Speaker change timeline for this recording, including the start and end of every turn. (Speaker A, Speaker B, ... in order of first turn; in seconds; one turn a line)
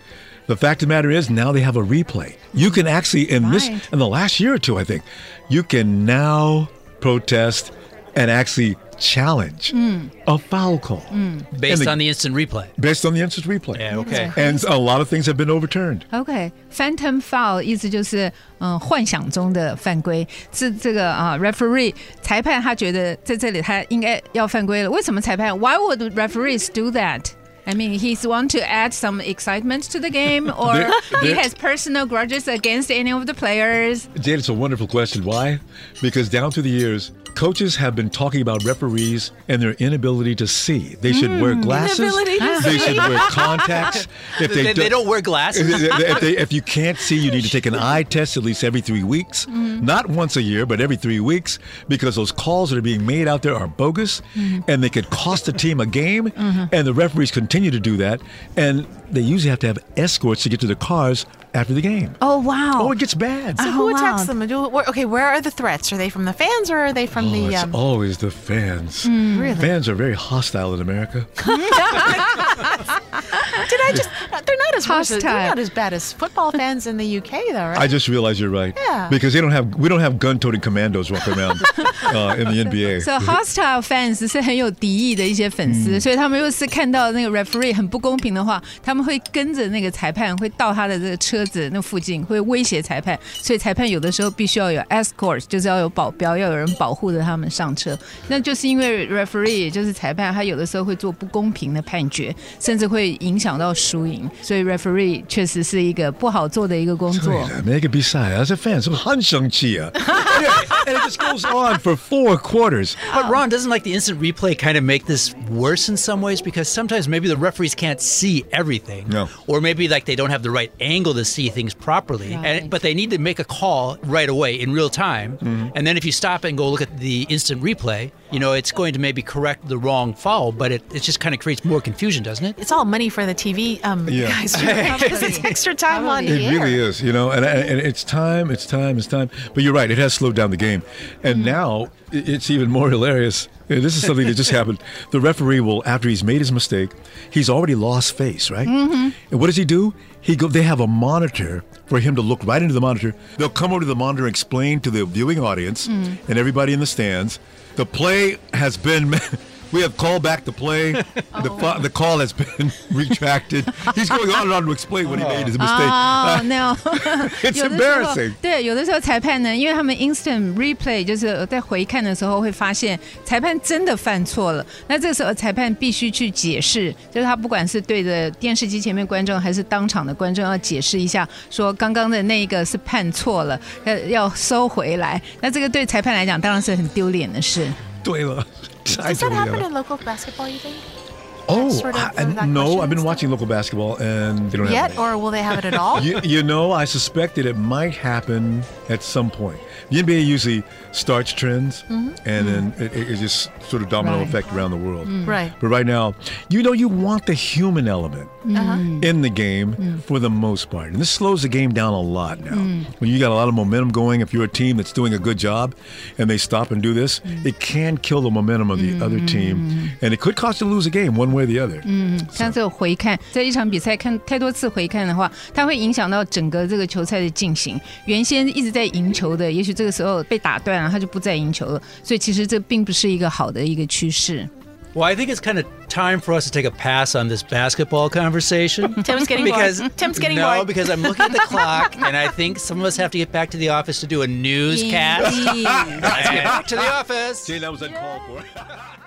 Speaker A: 0.5-12.1
Speaker B: 3.4-3.9
Speaker B: 9.7-10.1
Speaker B: 11.1-11.5
Speaker C: 11.5-12.7
Speaker A: 12.8-16.1
Speaker C: 13.7-14.3
Speaker B: 14.0-14.7
Speaker B: 16.1-34.1
Speaker A: 30.6-31.5
Speaker A: 34.1-62.2
Speaker B: 41.1-43.8
Speaker D: 41.6-43.8
Speaker C: 44.2-46.4
Speaker B: 49.5-49.8
Speaker B: 54.4-54.6
Speaker B: 56.4-56.7
Speaker B: 62.2-63.0
Speaker A: 62.8-63.6
Speaker B: 63.6-64.3
Speaker D: 63.6-67.8
Speaker A: 67.1-72.1
Speaker B: 69.0-69.6
Speaker D: 69.3-69.7
Speaker B: 71.4-72.7
Speaker B: 73.3-73.7
Speaker D: 73.7-77.9
Speaker B: 74.8-75.6
Speaker A: 77.7-83.4
Speaker D: 78.8-79.2
Speaker B: 83.0-107.5
Speaker A: 85.6-86.1
Speaker A: 107.1-113.0
Speaker C: 113.1-132.6
Speaker B: 113.1-113.4
Speaker B: 122.2-122.8
Speaker A: 125.4-125.7
Speaker D: 132.6-136.8
Speaker A: 134.1-134.5
Speaker C: 134.5-135.6
Speaker B: 135.0-136.5
Speaker A: 136.2-168.4
Speaker B: 141.3-141.6
Speaker B: 148.7-149.2
Speaker B: 155.9-156.2
Speaker B: 161.4-161.7
Speaker C: 165.0-165.6
Speaker B: 165.6-187.8
Speaker A: 188.0-189.7
Speaker D: 189.0-190.8
Speaker A: 191.5-195.1
Speaker D: 191.5-193.3
Speaker D: 194.6-196.2
Speaker A: 195.8-222.6
Speaker D: 201.9-202.2
Speaker B: 202.4-202.7
Speaker B: 204.0-204.4
Speaker B: 205.1-205.4
Speaker D: 205.2-205.5
Speaker B: 208.4-209.1
Speaker D: 208.5-208.8
Speaker B: 212.5-212.9
Speaker B: 218.7-219.9
Speaker B: 221.8-234.5
Speaker C: 234.9-245.5
Speaker D: 239.0-240.8
Speaker B: 244.7-246.2
Speaker A: 245.2-246.8
Speaker C: 246.0-247.5
Speaker A: 247.4-248.7